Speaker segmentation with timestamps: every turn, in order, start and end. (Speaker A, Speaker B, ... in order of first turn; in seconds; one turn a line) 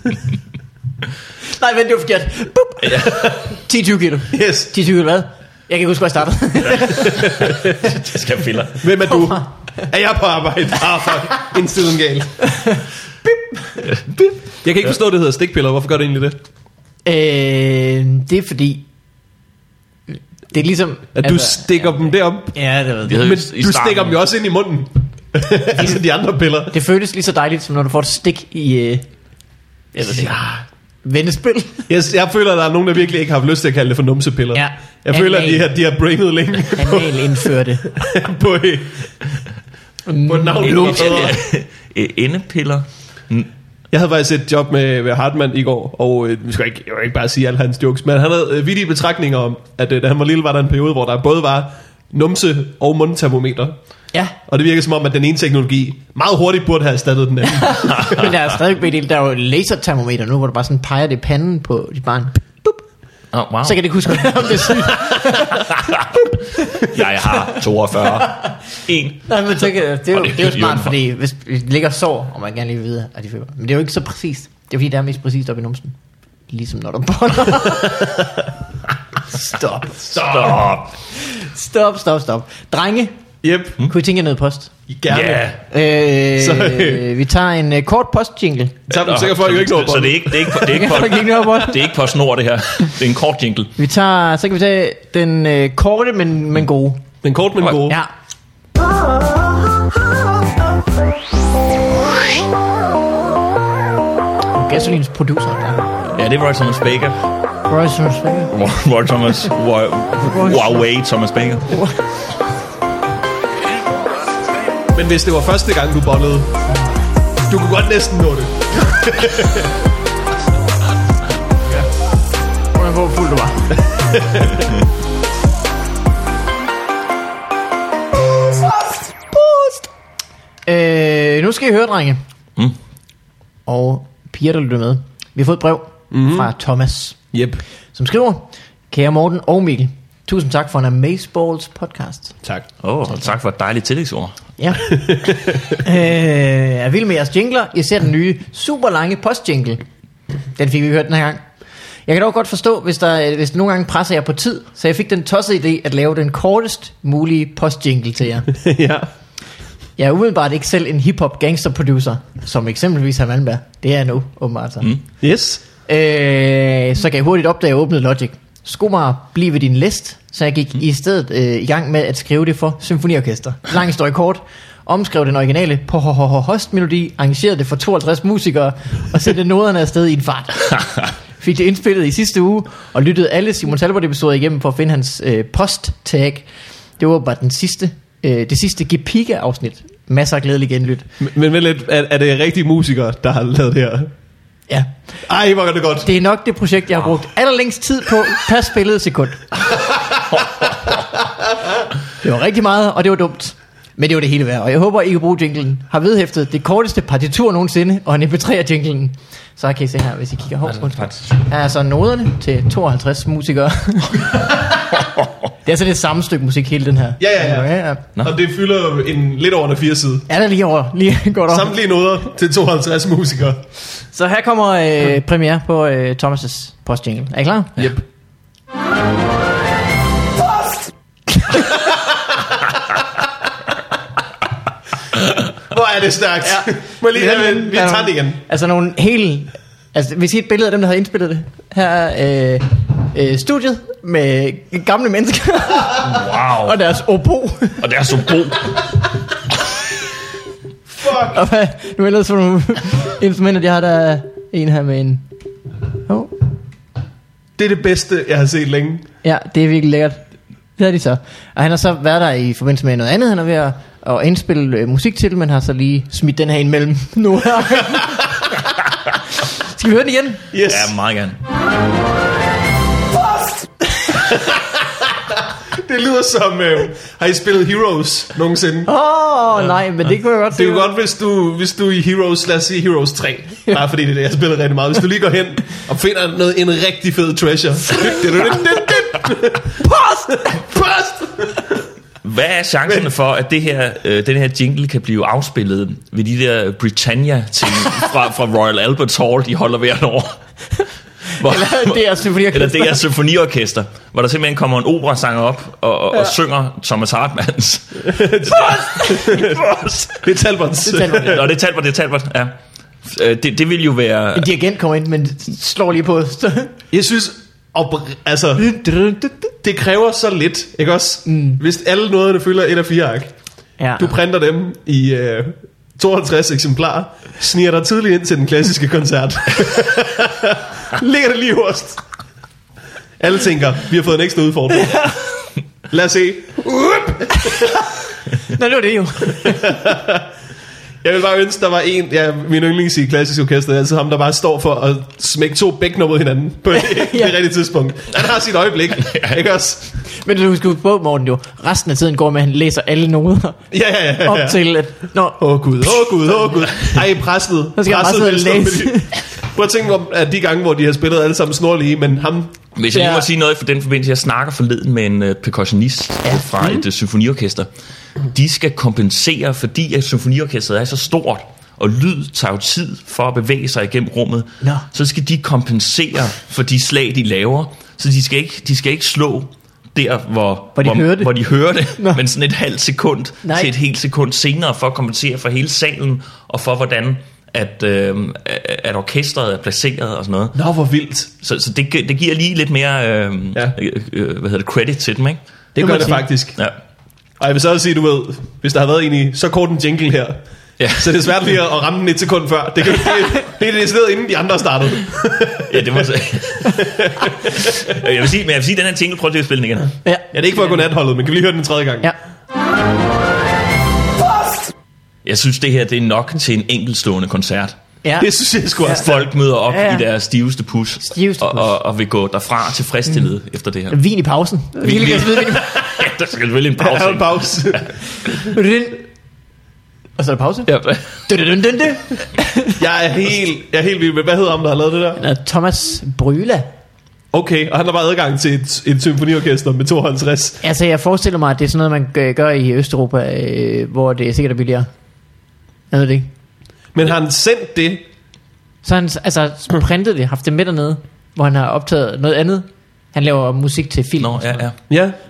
Speaker A: 1.4-7.5
Speaker B: 2.8-3.3
Speaker C: 4.3-4.7
Speaker B: 7.0-8.8
Speaker C: 7.1-7.8
Speaker C: 8.8-12.5
Speaker A: 9.1-9.4
Speaker A: 12.5-13.8
Speaker B: 13.9-14.4
Speaker C: 14.6-16.4
Speaker A: 17.0-18.8
Speaker A: 20.5-21.9
Speaker C: 21.1-22.6
Speaker A: 22.5-23.2
Speaker B: 23.0-24.2
Speaker C: 23.1-26.7
Speaker A: 26.7-29.1
Speaker A: 29.9-30.4
Speaker A: 31.0-31.8
Speaker C: 31.9-39.3
Speaker A: 34.5-35.7
Speaker A: 36.7-37.9
Speaker A: 40.1-41.3
Speaker C: 40.3-41.4
Speaker B: 40.6-43.5
Speaker C: 43.9-53.7
Speaker C: 54.5-58.3
Speaker A: 57.5-62.8
Speaker B: 63.3-69.6
Speaker A: 63.6-67.5
Speaker A: 69.2-75.9
Speaker B: 70.1-70.9
Speaker A: 76.5-78.5
Speaker A: 79.3-80.6
Speaker B: 80.1-80.9
Speaker A: 81.2-83.2
Speaker C: 83.4-83.8
Speaker A: 83.8-84.7
Speaker C: 84.9-85.5
Speaker B: 85.1-85.6
Speaker A: 85.7-88.8
Speaker C: 86.4-87.1
Speaker C: 88.9-90.8
Speaker B: 88.9-93.7
Speaker A: 90.5-91.9
Speaker A: 93.8-97.0
Speaker C: 97.2-98.0
Speaker A: 104.5-105.9
Speaker B: 106.1-107.2
Speaker A: 107.7-108.5
Speaker B: 108.5-111.8
Speaker A: 110.2-110.8
Speaker A: 111.7-112.0
Speaker C: 114.9-116.5
Speaker C: 117.5-119.7
Speaker A: 122.7-123.8
Speaker C: 124.1-124.7
Speaker A: 128.9-129.9
Speaker A: 130.7-132.2
Speaker A: 133.7-137.2
Speaker C: 136.1-136.5
Speaker C: 137.3-137.6
Speaker A: 137.9-142.3
Speaker B: 142.8-144.4
Speaker A: 144.6-149.8
Speaker C: 145.0-145.6
Speaker A: 150.6-151.4
Speaker A: 152.1-158.5
Speaker C: 158.6-159.1
Speaker A: 160.0-164.9
Speaker C: 165.2-165.6
Speaker A: 165.9-186.5
Speaker A: 187.0-191.1
Speaker C: 191.2-194.1
Speaker C: 195.3-196.1
Speaker A: 196.0-199.5
Speaker C: 199.8-200.7
Speaker A: 202.2-215.0
Speaker B: 210.7-211.2
Speaker A: 215.6-218.0
Speaker C: 217.2-220.3
Speaker A: 220.3-221.7
Speaker C: 221.5-223.6
Speaker A: 224.1-227.8
Speaker A: 231.3-231.7
Speaker C: 235.6-238.4
Speaker A: 236.4-248.1
Speaker B: 246.0-246.8
Speaker B: 247.8-248.8
Speaker C: 251.0-251.4
Speaker A: 251.0-255.2
Speaker A: 256.1-256.3
Speaker C: 257.6-259.1
Speaker A: 259.2-260.2
Speaker A: 260.8-270.4
Speaker C: 270.5-270.9
Speaker B: 270.6-271.4
Speaker C: 274.2-274.7
Speaker C: 275.7-278.9
Speaker A: 278.9-280.9
Speaker C: 280.5-291.6
Speaker A: 288.3-288.6
Speaker A: 289.8-290.5
Speaker B: 292.2-300.4
Speaker A: 301.3-303.0
Speaker B: 301.4-310.2
Speaker C: 308.0-311.5
Speaker A: 308.5-309.3
Speaker A: 310.8-311.4
Speaker B: 311.0-314.5
Speaker A: 314.3-316.7
Speaker C: 316.9-318.7
Speaker A: 318.6-319.5
Speaker C: 319.6-323.3
Speaker A: 321.2-321.6
Speaker A: 323.8-324.1
Speaker C: 324.0-332.0
Speaker C: 333.2-335.0
Speaker A: 334.7-335.3
Speaker C: 335.9-337.8
Speaker A: 337.3-337.8
Speaker A: 338.4-339.9
Speaker C: 339.4-340.2
Speaker C: 341.0-350.0
Speaker A: 346.8-347.3
Speaker B: 349.0-349.3
Speaker A: 350.1-353.6
Speaker C: 353.7-354.6
Speaker A: 354.2-355.4
Speaker C: 355.4-362.6
Speaker A: 357.8-359.2
Speaker B: 362.8-367.7
Speaker A: 362.9-363.3
Speaker B: 368.3-390.6
Speaker A: 380.8-381.3
Speaker A: 381.9-382.2
Speaker A: 383.4-383.7
Speaker C: 390.5-391.3
Speaker B: 391.4-395.4
Speaker C: 395.7-396.6
Speaker A: 395.8-396.3
Speaker C: 397.4-407.8
Speaker B: 400.8-401.3
Speaker A: 403.1-403.4
Speaker B: 405.7-406.9
Speaker B: 407.4-409.9
Speaker A: 410.0-410.3
Speaker C: 410.3-412.1
Speaker B: 415.2-417.8
Speaker A: 418.0-418.3
Speaker C: 418.2-419.3
Speaker A: 418.8-419.1
Speaker B: 418.9-424.0
Speaker A: 419.7-420.1
Speaker A: 421.0-421.7
Speaker A: 423.9-425.8
Speaker B: 424.8-427.9
Speaker C: 426.8-427.9
Speaker A: 428.3-429.0
Speaker A: 430.2-430.7
Speaker B: 430.7-431.2
Speaker A: 431.3-432.8
Speaker C: 432.8-435.2
Speaker A: 435.2-436.7
Speaker C: 437.3-440.6
Speaker A: 440.6-444.9
Speaker A: 445.9-446.3
Speaker C: 446.9-448.0
Speaker A: 448.8-454.7
Speaker B: 454.2-454.8
Speaker C: 454.9-455.2